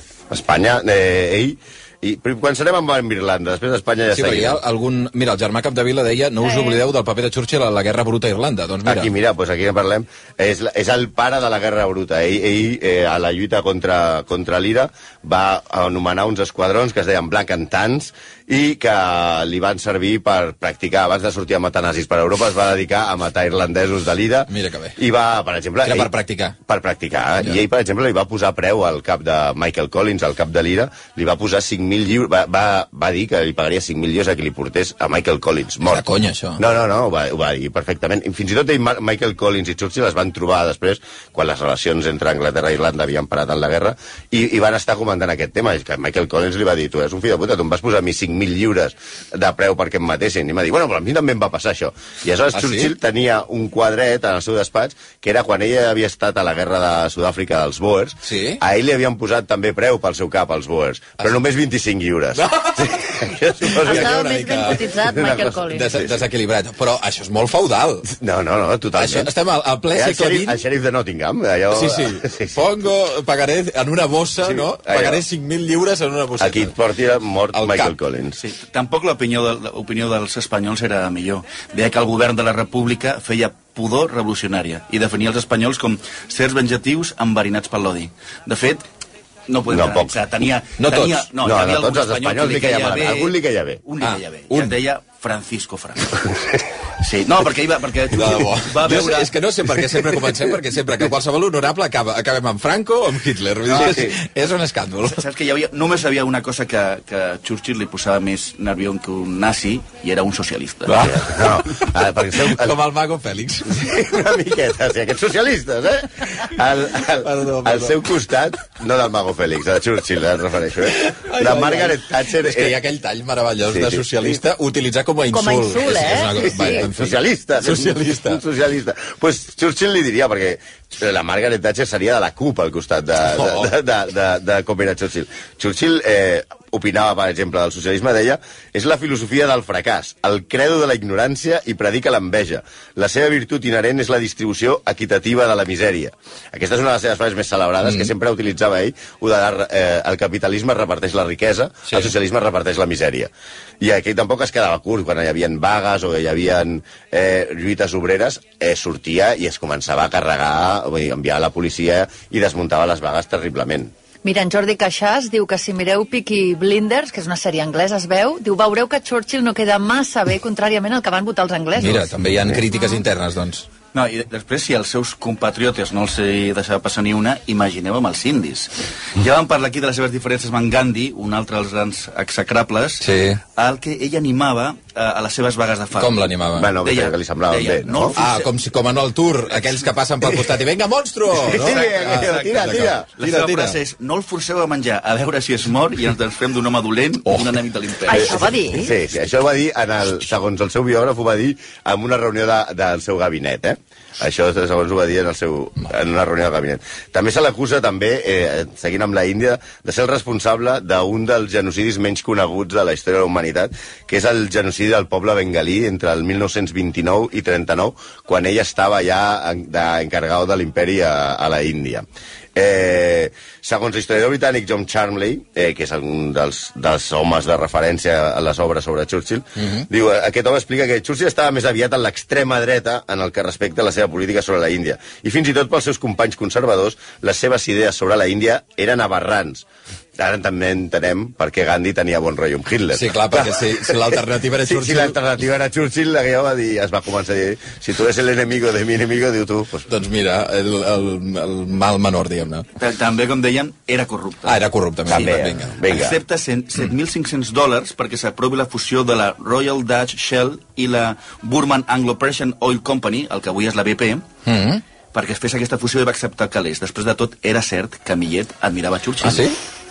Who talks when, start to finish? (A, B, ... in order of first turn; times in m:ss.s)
0:00.3-0:04.6 A
0:04.1-0:09.1 B
0:08.8-0:26.1 A
0:24.5-0:25.0 B
0:25.8-0:26.6 B
0:26.7-0:36.0 A
0:35.8-0:36.6 B
0:36.6-1:04.2 A
0:52.5-0:52.9 B
0:58.2-0:58.6 B
1:02.3-1:08.1 B
1:03.9-1:05.8 C
1:04.9-1:06.2 A
1:08.1-1:09.3 A
1:09.0-1:10.6 B
1:09.9-1:12.7 A
1:11.7-1:16.7 B
1:14.4-1:15.2 A
1:16.4-1:18.4 A
1:17.5-1:17.9 B
1:18.4-1:28.8 D
1:29.5-1:36.4 D
1:29.7-1:30.2 A
1:30.8-1:31.3 B
1:31.4-1:33.8 A
1:34.0-1:34.8 B
1:37.0-1:39.3 D
1:38.1-1:45.2 B
1:43.7-1:44.1 A
1:43.7-1:44.1 D
1:45.1-1:50.9 D
1:50.8-1:53.8 B
1:51.0-1:52.8 A
1:53.7-2:02.8 A
1:57.2-1:58.0 B
2:00.8-2:08.4 B
2:03.7-2:04.4 A
2:05.4-2:06.8 C
2:06.4-2:33.3 A
2:13.2-2:13.7 B
2:27.8-2:28.1 B
2:33.8-2:43.9 A
2:44.2-2:52.0 C
2:51.8-2:53.7 B
2:53.9-3:06.2 D
3:03.0-3:03.4 B
3:05.9-3:06.7 B
3:06.5-3:08.2 A
3:06.8-3:08.5 D
3:08.2-3:13.8 B
3:11.3-3:13.1 A
3:11.6-3:18.5 D
3:18.0-3:18.9 C
3:18.7-3:42.0 A
3:42.5-3:59.6 A
4:00.2-4:09.9 A
4:02.9-4:05.2 B
4:09.9-4:12.6 B
4:12.8-4:14.6 D
4:14.4-4:15.8 B
4:15.1-4:16.2 A
4:15.1-4:24.2 D
4:24.4-4:24.8 B
4:25.1-4:29.5 D
4:29.2-4:29.6 B